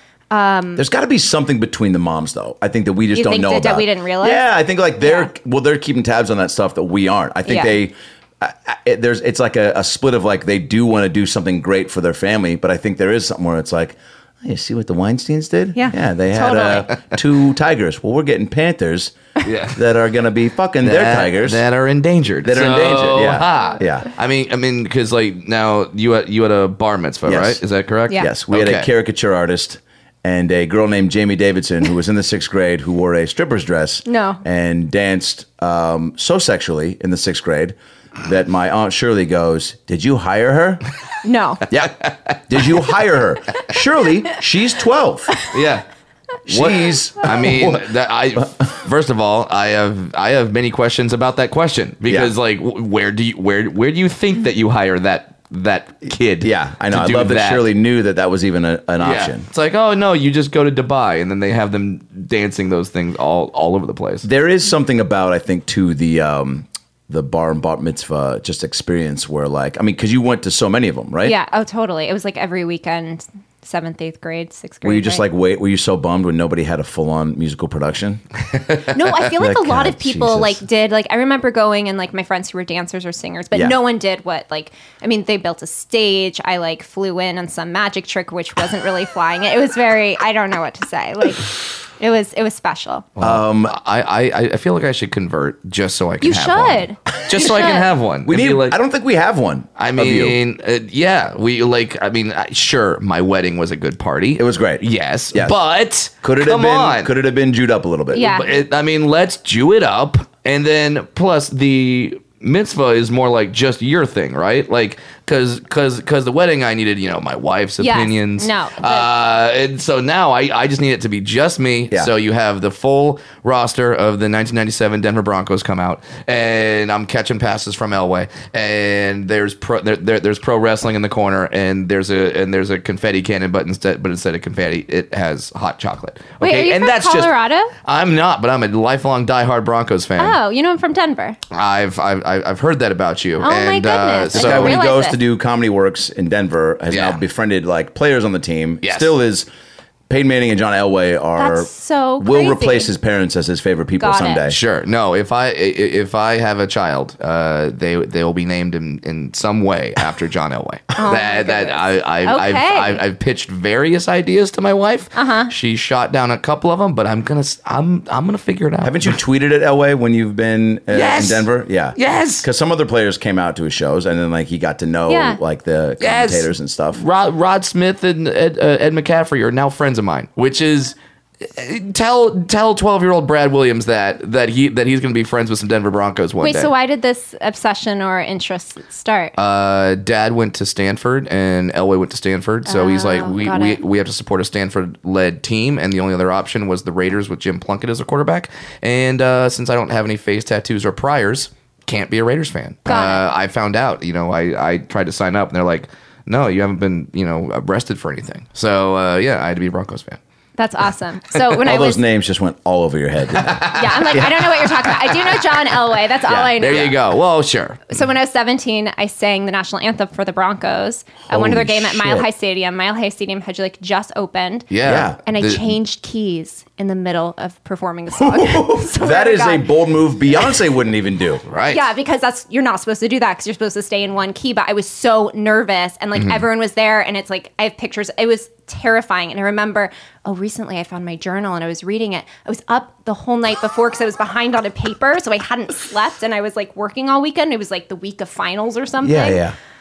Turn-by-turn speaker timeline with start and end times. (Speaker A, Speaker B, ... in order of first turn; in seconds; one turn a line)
Speaker A: 0.3-0.8
Speaker B: 0.8-19.1
Speaker A: 3.1-4.5
Speaker A: 5.0-5.3
Speaker A: 7.5-7.8
Speaker A: 15.8-16.9
Speaker C: 19.4-19.8
Speaker B: 19.7-21.6
Speaker C: 20.8-28.9
Speaker B: 22.4-24.1
Speaker B: 27.3-27.6
Speaker B: 28.2-40.8
Speaker A: 34.1-34.4
Speaker A: 41.2-41.6
Speaker B: 41.7-45.4
Speaker C: 45.5-45.8
Speaker B: 46.5-48.5
Speaker C: 46.5-57.6
Speaker B: 52.1-52.3
Speaker B: 56.4-59.5
Speaker C: 59.0-64.3
Speaker B: 64.2-71.3
Speaker A: 71.2-75.2
Speaker B: 74.8-78.2
Speaker A: 78.9-93.1
Speaker B: 79.2-80.6
Speaker C: 93.2-98.8
Speaker B: 93.2-93.8
Speaker A: 96.2-97.8
Speaker B: 98.2-100.4
Speaker C: 99.8-107.1
Speaker B: 104.4-105.6
Speaker B: 106.2-108.4
Speaker A: 108.1-108.5
Speaker C: 108.2-137.3
Speaker A: 117.8-119.1
Speaker A: 136.4-137.7
Speaker C: 137.8-140.4
Speaker A: 140.2-141.4
Speaker C: 141.5-144.8
Speaker A: 143.4-145.2
Speaker B: 144.3-149.5
Speaker C: 146.9-147.2
Speaker C: 148.8-149.1
Speaker B: 150.1-154.6
Speaker A: 151.4-152.9
Speaker A: 154.0-154.4
Speaker C: 154.5-169.2
Speaker A: 161.0-163.0
Speaker A: 165.2-165.5
Speaker B: 168.8-177.0
Speaker C: 170.9-172.5
Speaker A: 175.1-175.4
Speaker C: 176.0-186.7
Speaker A: 186.4-189.3
Speaker C: 189.4-210.2
Speaker A: 192.7-193.8
Speaker A: 202.9-203.3
Speaker A: 210.6-212.0
Speaker B: 211.6-214.6
Speaker C: 213.3-214.2
Speaker A: 213.7-216.9
Speaker B: 216.3-216.9
Speaker C: 216.6-218.0
Speaker A: 217.9-224.7
Speaker B: 221.3-222.3
Speaker C: 224.7-225.7
Speaker B: 224.8-225.2
Speaker A: 225.2-229.7
Speaker B: 228.1-231.4
Speaker C: 231.5-231.8
Speaker A: 231.7-249.4
Speaker C: 236.2-236.4
Speaker B: 249.0-249.6